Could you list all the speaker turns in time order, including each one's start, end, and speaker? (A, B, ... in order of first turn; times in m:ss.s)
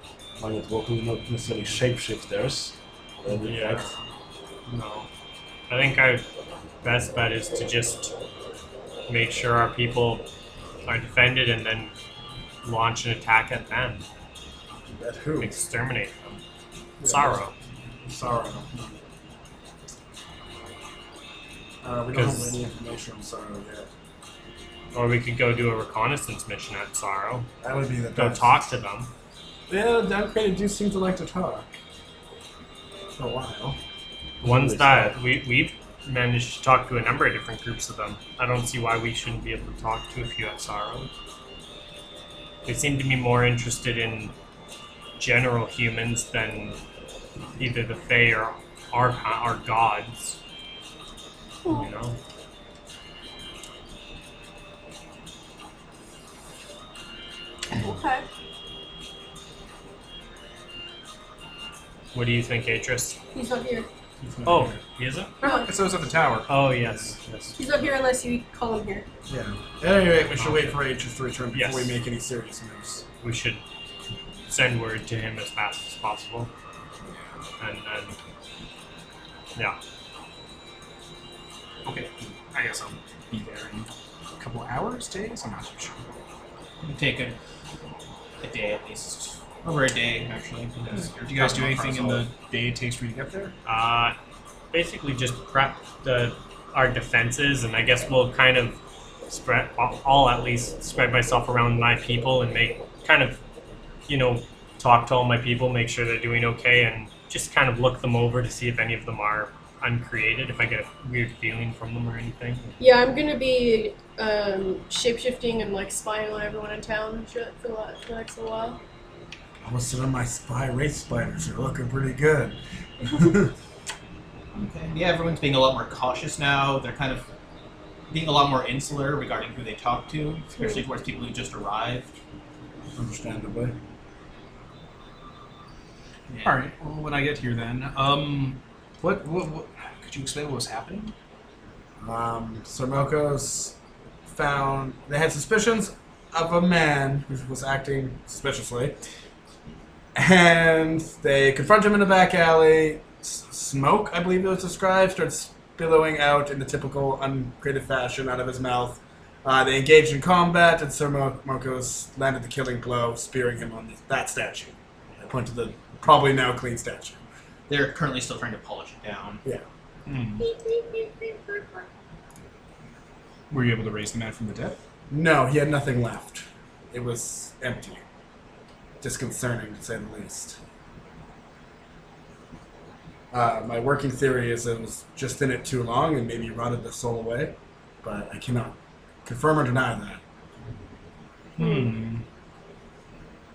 0:00.4-0:03.9 A
0:03.4-0:03.9 B
0:04.7-0:05.1 B
0:05.7-0:06.3 B
0:06.8-0:08.1 B
0:09.1-0:10.3 B
0:10.8-0:11.9 B
0:12.6-0:14.0 B
0:14.9-0:15.6 C
0:15.4-0:16.4 B
0:17.0-0:17.4 C
0:17.0-0:17.5 B
0:18.0-0:19.0 C
0:21.8-0:23.9 C
0:22.1-0:22.6 B
0:24.9-0:27.5 B
0:27.6-0:28.6 C
0:28.1-0:29.1 B
0:29.7-0:31.7 C
0:33.2-0:33.8 C
0:34.4-0:35.2 A
0:34.4-0:41.1 B
0:42.6-0:44.3 B
0:45.2-0:46.8 B
0:47.6-0:50.4 B
0:51.6-0:51.9 D
0:51.7-0:52.2 B
0:57.8-0:58.2 D
1:02.1-1:03.2 B
1:03.3-1:03.9 D
1:04.2-1:04.8 C
1:04.4-1:05.3 B
1:05.4-1:05.7 D
1:05.4-1:06.7 E
1:06.5-1:07.6 B
1:07.6-1:09.1 D
1:09.3-1:13.0 C
1:10.3-1:10.8 B
1:11.5-1:12.0 B
1:13.2-1:13.6 B
1:14.5-1:16.5 B
1:17.6-1:18.2 B
1:21.8-1:26.0 E
1:26.8-1:27.4 F
1:28.4-1:32.3 F
1:31.2-1:33.5 E
1:33.6-1:34.2 B
1:34.7-1:38.8 B
1:39.3-1:43.4 B
1:44.1-1:52.7 B
1:52.8-1:58.8 D
1:59.6-2:03.5 C
2:04.5-2:07.2 F
2:08.1-2:12.2 F
2:12.9-2:13.7 C
2:16.3-2:16.6 F
2:16.4-2:21.1 E
2:22.0-2:23.7 C
2:24.3-2:29.0 C
2:30.1-2:44.8 C
2:45.3-2:47.2 C
2:47.7-2:49.4 F
2:50.0-2:50.5 E
2:50.4-2:51.9 D
2:53.5-2:54.8 E
2:55.1-2:58.0 C
2:59.0-3:00.6 C
3:03.3-3:10.2 C
3:11.6-3:12.2 E
3:11.6-3:11.9 D